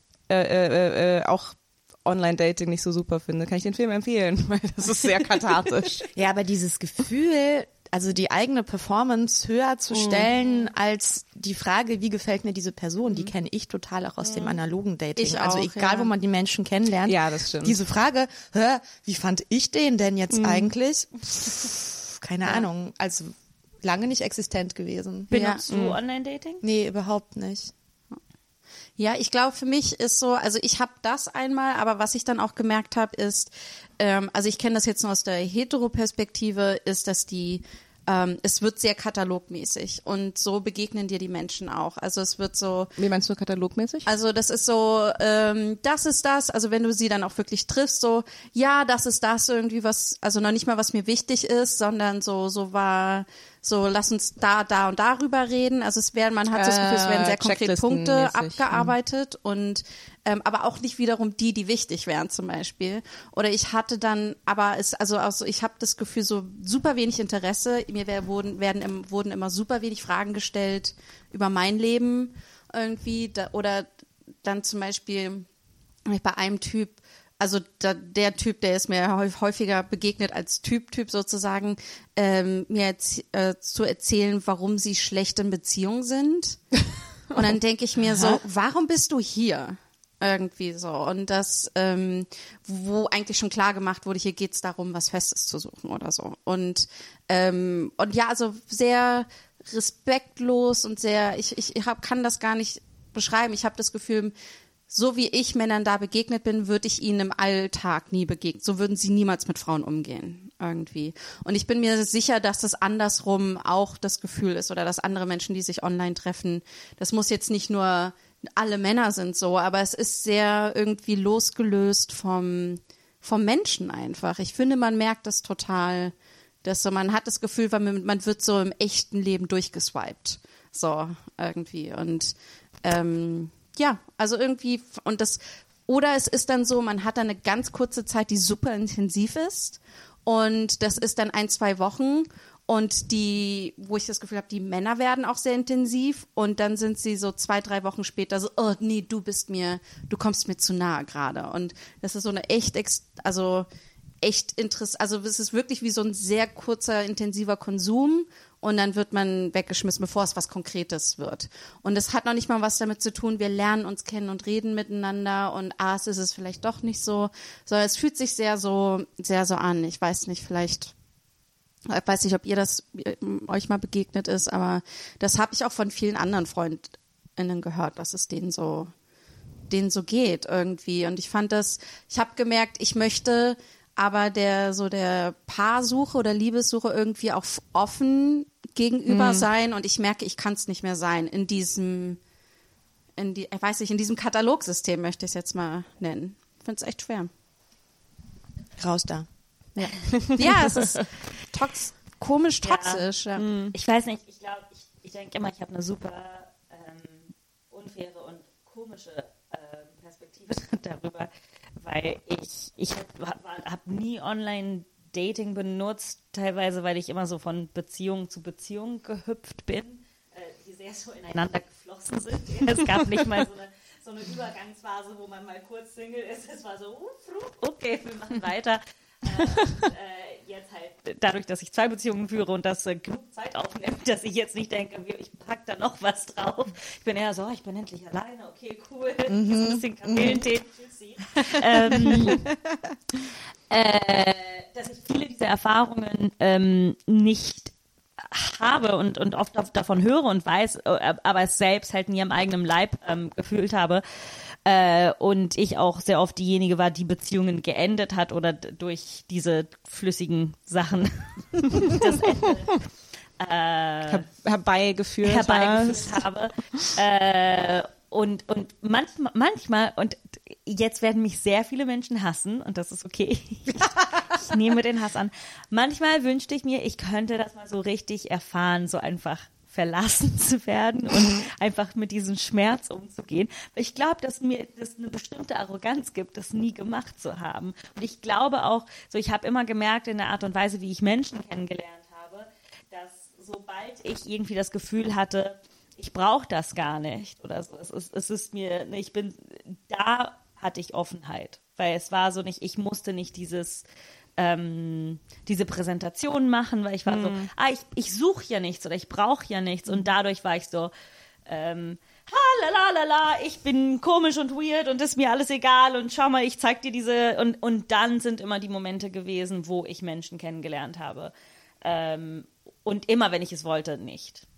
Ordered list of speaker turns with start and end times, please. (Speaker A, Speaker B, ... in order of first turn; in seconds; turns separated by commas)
Speaker A: 0.3-6.1, Speaker B: 6.2-25.6, Speaker A: 9.9-10.3, Speaker C: 15.2-16.1, Speaker A: 17.1-17.8, Speaker A: 20.3-20.7, Speaker C: 25.3-25.6, Speaker D: 25.3-26.6, Speaker A: 25.7-26.0, Speaker B: 26.6-27.7, Speaker C: 29.0-43.0, Speaker A: 43.0-44.1, Speaker C: 44.1-73.9, Speaker A: 56.5-58.9, Speaker C: 74.4-75.5, Speaker C: 76.1-86.6, Speaker C: 87.3-104.3, Speaker C: 104.9-153.7, Speaker C: 154.2-170.9, Speaker C: 171.9-178.9, Speaker C: 179.7-192.2, Speaker A: 189.1-189.5, Speaker C: 193.2-197.3, Speaker B: 198.8-199.3, Speaker C: 199.8-203.4, Speaker A: 200.1-200.5, Speaker D: 202.6-203.0, Speaker A: 203.4-203.7, Speaker D: 203.7-211.3, Speaker D: 211.8-242.4, Speaker B: 239.3-240.5, Speaker D: 243.7-254.0, Speaker D: 254.7-262.8, Speaker D: 263.4-264.2, Speaker A: 264.1-266.1, Speaker D: 265.2-303.9, Speaker D: 304.4-310.9, Speaker A: 307.1-307.5, Speaker D: 311.5-324.4